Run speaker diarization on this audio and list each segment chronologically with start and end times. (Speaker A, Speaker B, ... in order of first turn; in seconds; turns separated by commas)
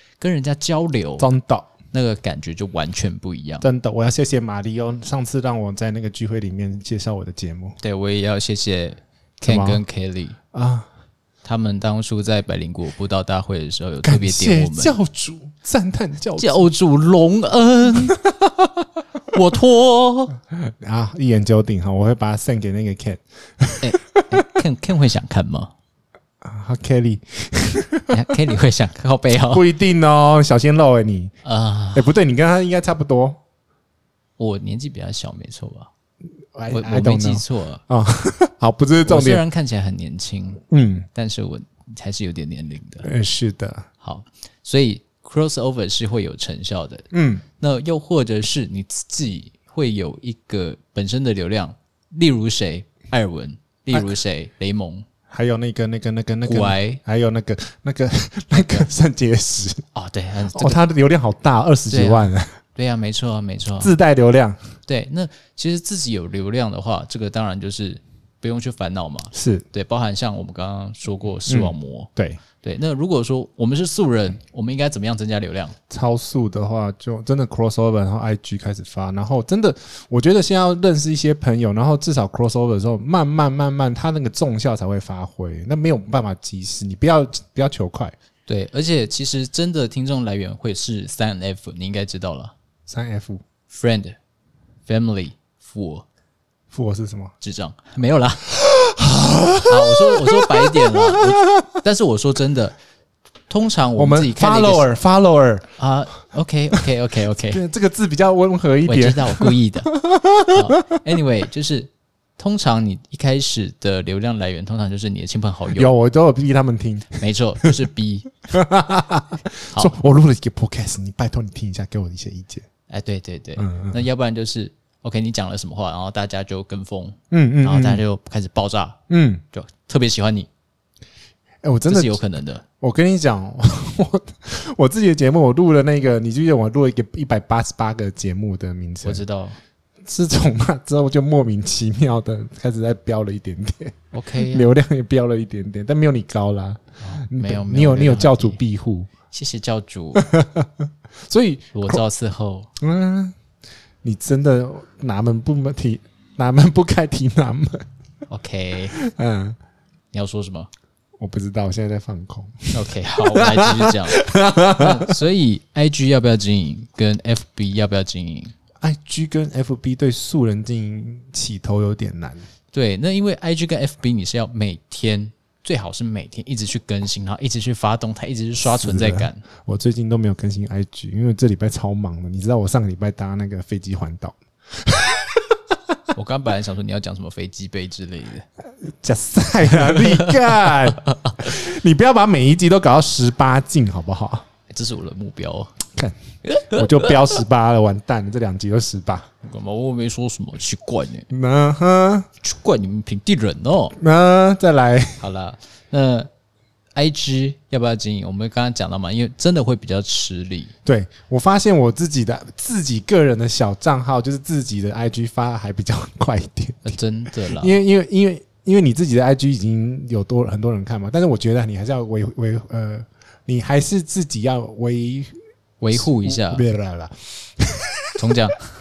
Speaker A: 0.2-1.3, Speaker B: 1.2-1.7, Speaker A: 1.9-3.7, Speaker B: 3.6-7.8, Speaker A: 7.8-10.4, Speaker B: 9.5-9.8, Speaker B: 10.5-10.9, Speaker A: 11.4-15.0, Speaker B: 14.0-16.7, Speaker A: 16.4-18.2, Speaker A: 19.3-20.4, Speaker B: 20.8-24.2, Speaker A: 23.8-25.7, Speaker B: 26.4-28.2, Speaker A: 28.1-29.7, Speaker B: 29.5-31.3, Speaker A: 31.4-32.2, Speaker B: 31.9-33.4, Speaker A: 34.4-35.9, Speaker B: 36.5-39.5, Speaker A: 36.7-37.8, Speaker A: 39.0-40.6, Speaker B: 40.7-41.1, Speaker A: 41.1-43.1, Speaker B: 43.0-43.9, Speaker A: 44.0-47.1, Speaker B: 47.1-47.4, Speaker A: 47.6-55.0, Speaker B: 55.3-59.9, Speaker A: 56.5-57.0, Speaker A: 58.6-58.8, Speaker A: 60.0-60.8, Speaker B: 60.5-62.6, Speaker A: 61.9-64.0, Speaker B: 63.8-64.6, Speaker A: 64.9-75.8, Speaker B: 69.3-69.7, Speaker B: 71.5-72.4, Speaker B: 75.9-88.1, Speaker A: 88.5-92.5, Speaker B: 92.9-93.4, Speaker A: 93.7-94.2, Speaker A: 94.9-96.0, Speaker B: 96.7-97.3, Speaker A: 97.4-98.5, Speaker B: 98.5-101.2, Speaker A: 99.7-102.8, Speaker A: 103.5-104.9, Speaker B: 104.0-105.7, Speaker A: 105.8-107.6, Speaker B: 107.5-110.9, Speaker A: 108.9-109.9, Speaker A: 110.5-115.9, Speaker B: 115.7-117.7, Speaker A: 117.2-118.3, Speaker B: 118.5-122.7, Speaker A: 122.9-129.0, Speaker B: 123.6-124.0, Speaker B: 127.3-128.0, Speaker B: 129.1-129.4, Speaker A: 129.5-130.5, Speaker B: 131.6-132.2, Speaker A: 131.9-132.6, Speaker B: 132.8-139.2, Speaker A: 139.0-139.6, Speaker B: 140.1-149.1, Speaker A: 144.1-144.7, Speaker A: 147.0-148.6, Speaker A: 149.3-150.3, Speaker B: 150.2-152.0, Speaker A: 151.7-152.7, Speaker B: 152.8-153.3, Speaker B: 154.0-157.8, Speaker A: 158.3-158.9, Speaker B: 159.0-159.6, Speaker A: 160.1-160.7, Speaker B: 161.2-164.9, Speaker A: 162.7-168.5, Speaker B: 168.8-172.5, Speaker A: 172.7-179.4, Speaker B: 178.6-185.4, Speaker A: 186.1-188.4, Speaker B: 188.9-194.4, Speaker A: 189.9-190.3, Speaker A: 194.7-195.7, Speaker B: 196.0-199.3, Speaker A: 196.5-197.2, Speaker A: 199.4-201.3, Speaker B: 201.3-202.3, Speaker A: 202.4-204.0, Speaker B: 204.0-205.2, Speaker A: 205.2-206.3, Speaker A: 206.9-210.7, Speaker B: 210.8-225.4, Speaker A: 216.8-217.8, Speaker A: 225.8-226.7, Speaker B: 225.9-228.2, Speaker A: 228.2-228.7